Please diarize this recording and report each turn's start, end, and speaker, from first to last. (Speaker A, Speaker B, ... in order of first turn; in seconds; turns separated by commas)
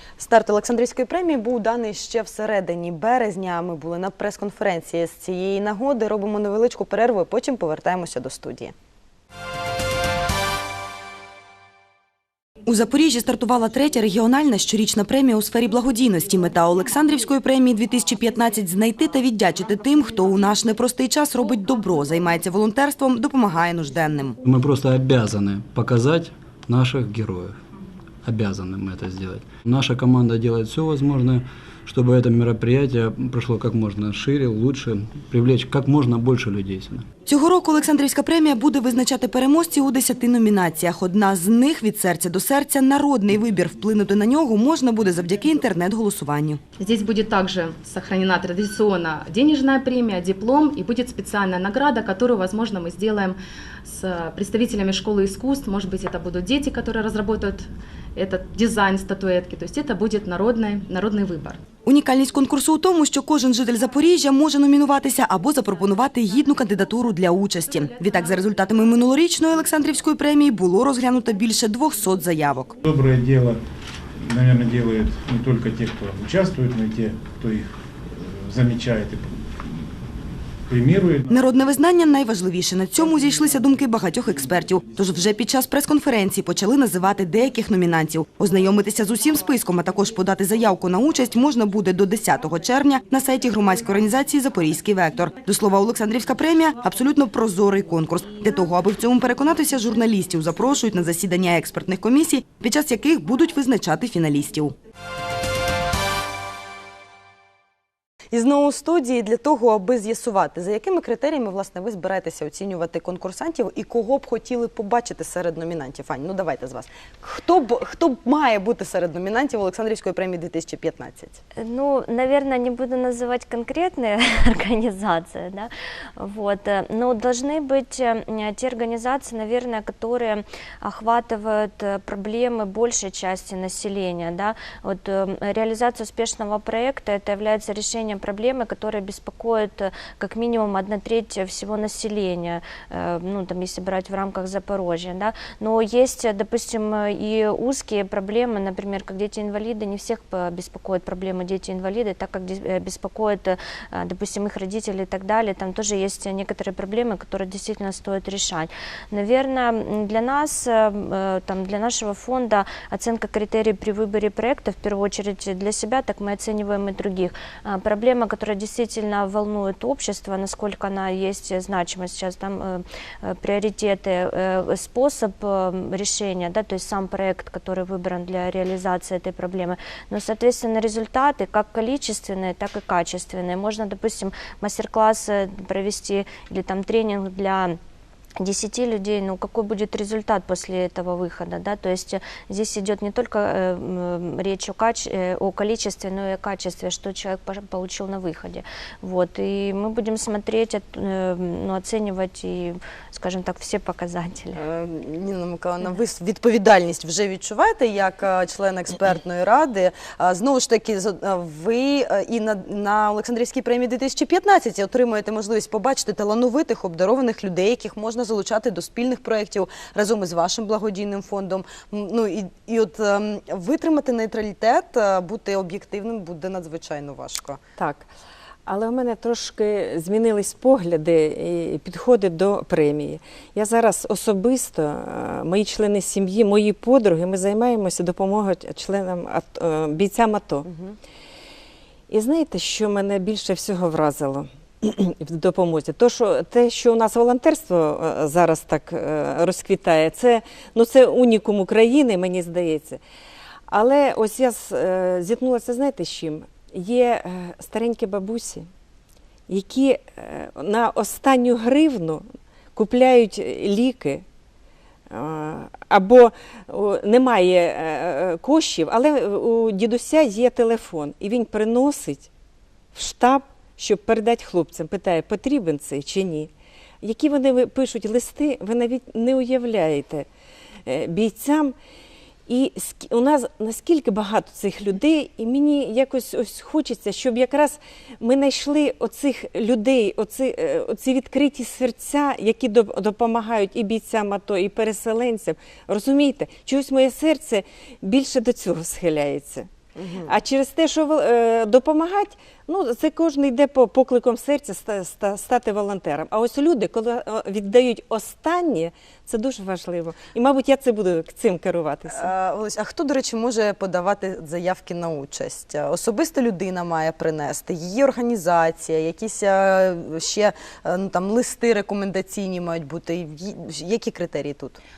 Speaker A: 0.2-8.8, Speaker A: 12.6-24.4, Speaker B: 24.4-27.6, Speaker B: 28.2-37.1, Speaker A: 37.2-46.6, Speaker C: 46.8-61.6, Speaker A: 61.8-72.8, Speaker D: 72.8-73.6, Speaker D: 74.2-80.1, Speaker D: 80.7-81.4, Speaker A: 81.3-104.8, Speaker A: 108.3-121.4, Speaker E: 121.6-187.8, Speaker E: 188.4-204.6, Speaker A: 204.5-227.6, Speaker F: 227.8-228.1, Speaker F: 228.7-240.7, Speaker A: 240.7-241.0, Speaker F: 242.1-253.0, Speaker F: 253.7-258.7, Speaker F: 259.5-264.2, Speaker F: 265.1-272.3, Speaker F: 272.9-276.5, Speaker F: 277.0-280.3, Speaker F: 280.9-281.8, Speaker F: 282.5-299.7, Speaker A: 300.0-300.3, Speaker F: 300.2-312.3, Speaker A: 312.1-324.8